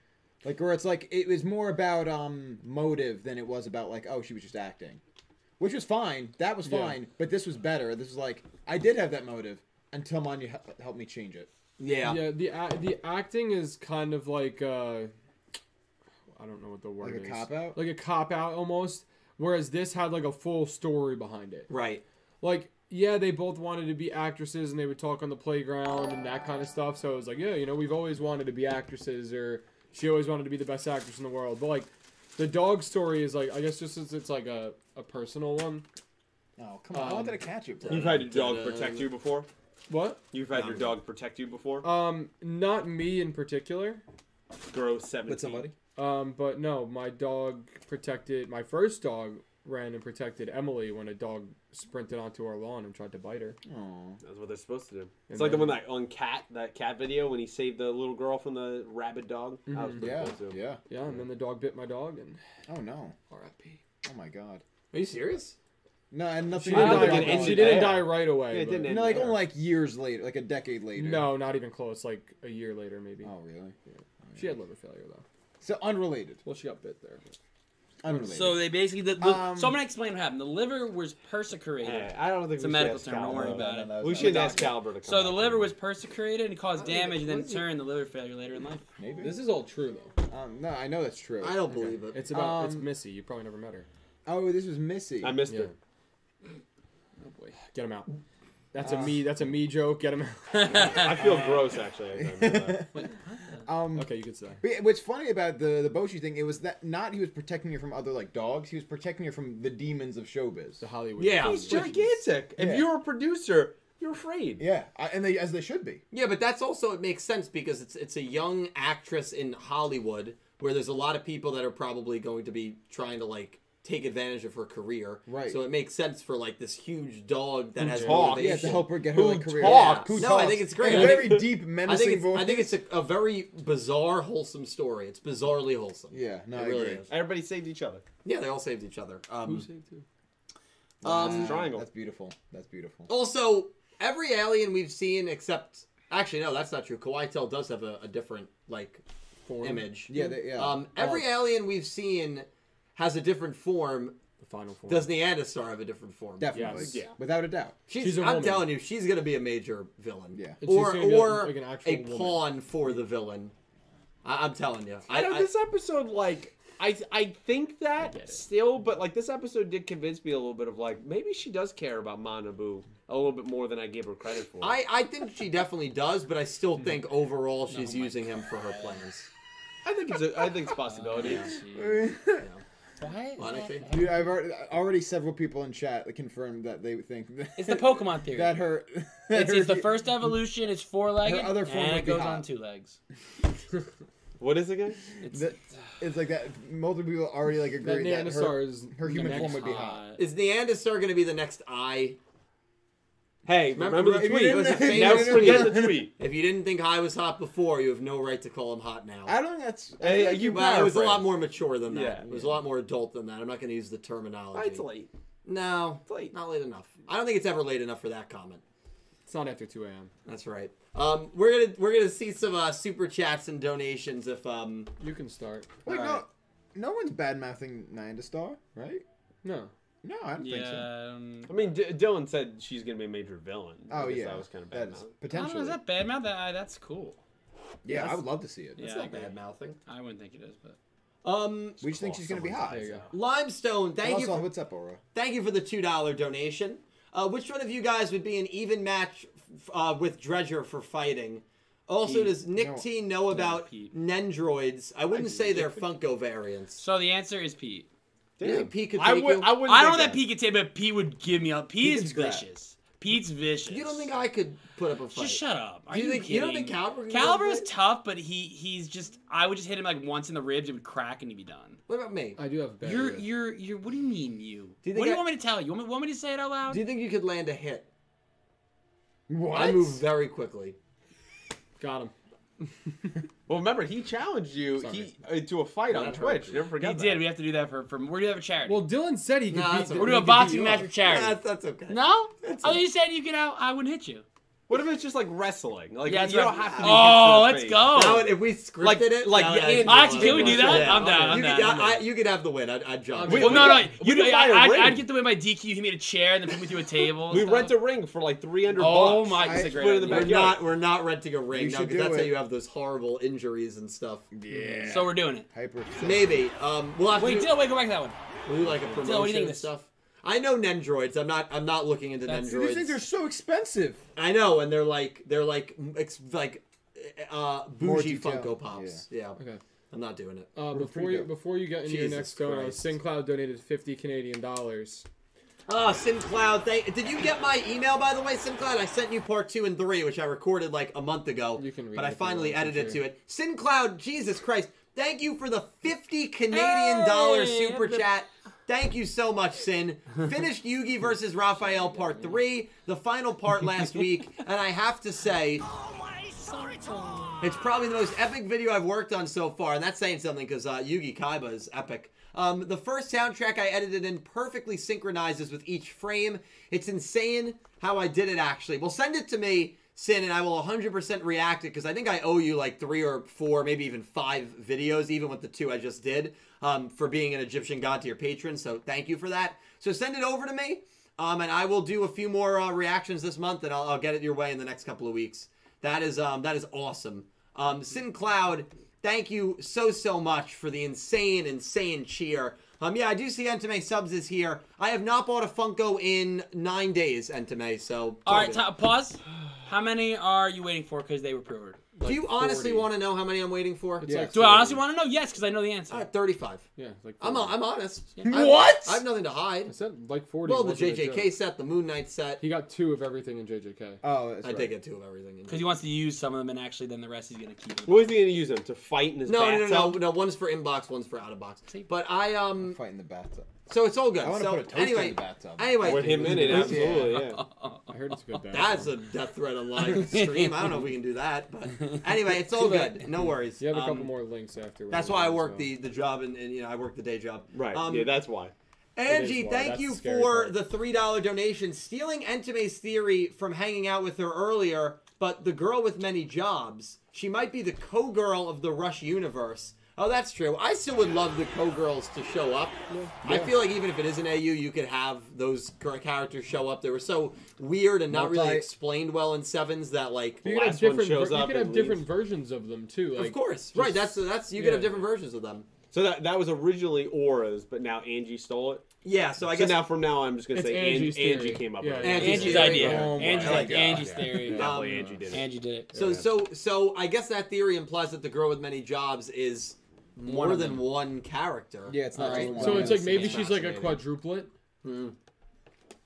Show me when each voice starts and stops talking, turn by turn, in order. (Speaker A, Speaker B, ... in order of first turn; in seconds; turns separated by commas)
Speaker A: 0.4-5.0, Speaker A: 5.6-11.5, Speaker B: 6.6-7.0, Speaker C: 11.8-12.3, Speaker B: 12.0-15.1, Speaker B: 16.3-21.7, Speaker A: 17.0-17.8, Speaker C: 21.7-22.0, Speaker B: 22.4-35.8, Speaker A: 36.6-38.2, Speaker B: 36.9-37.4, Speaker C: 37.8-39.1, Speaker D: 37.9-39.5, Speaker B: 39.9-40.2, Speaker D: 40.3-41.9, Speaker C: 40.5-40.9, Speaker B: 41.8-44.0, Speaker D: 44.7-45.7, Speaker A: 45.2-45.7, Speaker B: 46.0-53.6, Speaker A: 53.6-54.2, Speaker D: 54.2-60.6, Speaker B: 55.3-55.8, Speaker B: 59.7-60.3, Speaker A: 60.0-60.8, Speaker B: 60.9-62.4, Speaker A: 62.7-63.1, Speaker A: 64.0-64.6, Speaker C: 64.9-65.5, Speaker A: 66.1-68.1, Speaker B: 66.5-69.2, Speaker D: 66.7-69.4, Speaker A: 68.8-71.4, Speaker B: 71.0-73.3, Speaker A: 73.2-74.5, Speaker B: 74.3-75.2, Speaker A: 75.6-76.4, Speaker B: 76.4-77.3, Speaker A: 78.0-78.6, Speaker E: 78.2-88.8, Speaker A: 79.2-79.8, Speaker D: 81.8-85.7, Speaker A: 83.3-84.8, Speaker C: 86.8-87.6, Speaker A: 89.0-89.4, Speaker B: 89.2-90.1, Speaker A: 90.3-92.9, Speaker C: 91.4-92.3, Speaker B: 91.9-93.9, Speaker A: 94.2-95.4, Speaker D: 95.2-95.7, Speaker B: 95.5-95.7, Speaker B: 97.2-98.2, Speaker B: 98.7-101.3, Speaker A: 98.8-99.2, Speaker E: 100.6-101.1, Speaker D: 100.9-102.8, Speaker A: 102.1-103.0, Speaker E: 102.9-103.6, Speaker A: 103.6-104.1, Speaker B: 103.9-104.6, Speaker A: 104.6-110.8, Speaker B: 110.8-112.1, Speaker C: 111.2-111.9, Speaker D: 111.4-114.6, Speaker A: 112.6-112.9, Speaker A: 114.6-116.0, Speaker C: 116.1-128.9, Speaker A: 125.3-125.6, Speaker B: 127.8-128.2, Speaker D: 127.9-131.5, Speaker A: 128.1-132.8, Speaker C: 129.6-137.1, Speaker A: 136.1-137.0, Speaker D: 137.1-138.0, Speaker C: 138.2-139.7, Speaker B: 139.4-140.0, Speaker A: 141.0-143.1, Speaker C: 141.0-141.7, Speaker D: 141.1-141.8, Speaker C: 143.1-154.2, Speaker B: 149.5-150.3, Speaker A: 150.1-151.2, Speaker B: 154.4-155.1, Speaker C: 154.9-156.9, Speaker A: 156.4-157.8, Speaker B: 156.5-157.0, Speaker D: 156.9-157.1, Speaker C: 157.9-163.5, Speaker B: 157.9-158.7, Speaker A: 160.3-160.6, Speaker B: 160.6-162.5, Speaker C: 164.2-165.5, Speaker D: 165.1-174.8, Speaker C: 174.6-179.3, Speaker E: 177.7-179.0, Speaker D: 179.8-181.5, Speaker E: 180.8-182.1, Speaker A: 181.6-182.5, Speaker E: 183.0-184.2, Speaker C: 183.4-184.1, Speaker A: 183.9-190.2, Speaker E: 187.6-188.6, Speaker E: 189.3-193.0, Speaker A: 191.2-192.5, Speaker D: 194.4-195.0, Speaker E: 195.2-195.9, Speaker A: 195.3-200.0, Speaker B: 197.8-199.6, Speaker E: 199.1-200.2, Speaker C: 200.2-202.2, Speaker D: 203.4-206.1, Speaker C: 203.7-209.3, Speaker A: 204.0-206.1, Speaker A: 209.2-211.1, Speaker D: 210.0-211.3, Speaker C: 210.5-214.8, Speaker D: 211.9-212.4, Speaker D: 214.5-215.1, Speaker C: 215.4-218.6, Speaker D: 216.1-216.3, Speaker B: 219.2-220.1, Speaker C: 220.2-224.9, Speaker B: 225.0-225.7, Speaker A: 225.8-229.0, Speaker E: 225.9-226.2, Speaker B: 229.4-229.7, Speaker A: 230.0-230.9, Speaker E: 230.4-231.8, Speaker D: 231.5-235.1, Speaker A: 233.9-235.8, Speaker E: 235.3-237.2, Speaker A: 237.8-239.2, Speaker C: 237.9-238.2, Speaker E: 238.8-239.3, Speaker C: 238.8-239.8, Speaker E: 239.8-240.8, Speaker C: 241.2-241.9, Speaker A: 241.8-243.0, Speaker D: 241.8-242.7, Speaker E: 242.7-243.1, Speaker B: 242.7-243.1, Speaker C: 243.1-244.5, Speaker A: 244.0-245.0, Speaker C: 245.1-256.8, Speaker E: 252.0-252.4, Speaker A: 252.5-252.8, Speaker E: 253.3-253.9, Speaker E: 255.2-255.6, Speaker D: 255.3-255.6, Speaker E: 256.8-257.9, Speaker D: 258.4-260.2, Speaker C: 258.4-259.6, Speaker E: 259.6-264.1, Speaker A: 261.8-262.4, Speaker C: 263.7-267.7, Speaker E: 265.1-271.8, Speaker C: 271.9-272.4, Speaker B: 272.4-273.2, Speaker E: 272.8-276.8, Speaker C: 274.8-275.2, Speaker C: 276.7-277.9, Speaker A: 279.3-280.0, Speaker C: 279.5-280.8, Speaker B: 281.8-282.1, Speaker D: 283.5-287.2, Speaker B: 284.8-285.1, Speaker C: 285.9-286.6, Speaker E: 286.8-288.9, Speaker B: 288.6-290.9, Speaker C: 289.5-292.8, Speaker E: 289.9-291.4, Speaker E: 291.9-294.2, Speaker D: 294.7-298.1, Speaker E: 296.1-298.3, Speaker C: 296.4-297.2, Speaker C: 297.9-303.8, Speaker D: 298.8-301.1, Speaker E: 299.8-301.8, Speaker B: 300.7-301.8, Speaker B: 303.1-303.9, Speaker D: 303.3-305.0, Speaker E: 303.3-307.7, Speaker D: 307.3-310.6, Speaker E: 308.7-310.5, Speaker A: 309.4-310.0, Speaker C: 310.1-314.3, Speaker A: 311.5-312.3, Speaker A: 314.3-316.5, Speaker E: 314.8-315.5, Speaker C: 316.0-317.5, Speaker E: 317.1-318.1, Speaker C: 318.4-323.0, Speaker E: 319.0-319.7, Speaker E: 322.2-322.5, Speaker A: 322.4-324.0, Speaker C: 324.1-329.4, Speaker A: 327.8-329.0, Speaker C: 329.9-330.5, Speaker B: 330.5-335.1, Speaker A: 330.7-331.3, Speaker C: 331.8-332.9, Speaker C: 335.7-355.6, Speaker B: 341.6-343.0, Speaker E: 346.5-348.1, Speaker E: 351.9-352.3, Speaker E: 356.2-357.5, Speaker C: 357.4-398.6, Speaker E: 398.2-402.1, Speaker C: 402.0-404.2, Speaker B: 404.0-404.6, Speaker A: 404.0-404.8, Speaker E: 404.3-406.1, Speaker C: 405.9-406.7, Speaker B: 406.8-407.6, Speaker C: 407.2-409.8, Speaker E: 408.1-408.4, Speaker A: 408.2-409.0, Speaker B: 409.6-411.3, Speaker C: 410.4-412.4, Speaker B: 412.4-414.0, Speaker A: 414.0-414.8, Speaker C: 414.4-415.8, Speaker E: 415.5-418.2, Speaker D: 417.9-420.0, Speaker C: 419.2-422.8, Speaker A: 422.6-423.5, Speaker C: 423.7-427.2, Speaker A: 424.2-427.2, Speaker D: 425.8-427.4, Speaker B: 426.4-426.8, Speaker E: 427.2-428.1, Speaker B: 427.9-428.9, Speaker C: 428.5-434.1, Speaker E: 429.8-430.8, Speaker B: 432.5-435.7, Speaker C: 434.9-438.1, Speaker D: 437.5-438.5, Speaker C: 438.9-460.4, Speaker B: 439.1-440.6, Speaker B: 452.9-453.1, Speaker A: 453.2-453.5, Speaker A: 458.1-458.7, Speaker D: 460.4-462.0, Speaker B: 460.4-465.0, Speaker C: 463.1-465.7, Speaker D: 465.9-468.8, Speaker C: 469.0-469.9, Speaker D: 469.4-475.4, Speaker B: 470.5-473.6, Speaker C: 472.0-473.8, Speaker E: 472.1-474.7, Speaker A: 472.6-474.2, Speaker B: 474.4-475.2, Speaker C: 474.5-475.2, Speaker E: 475.3-475.9, Speaker C: 475.9-483.7, Speaker B: 475.9-476.2, Speaker E: 480.2-480.8, Speaker A: 481.9-484.0, Speaker E: 482.2-483.4, Speaker B: 482.2-484.5, Speaker C: 484.8-485.1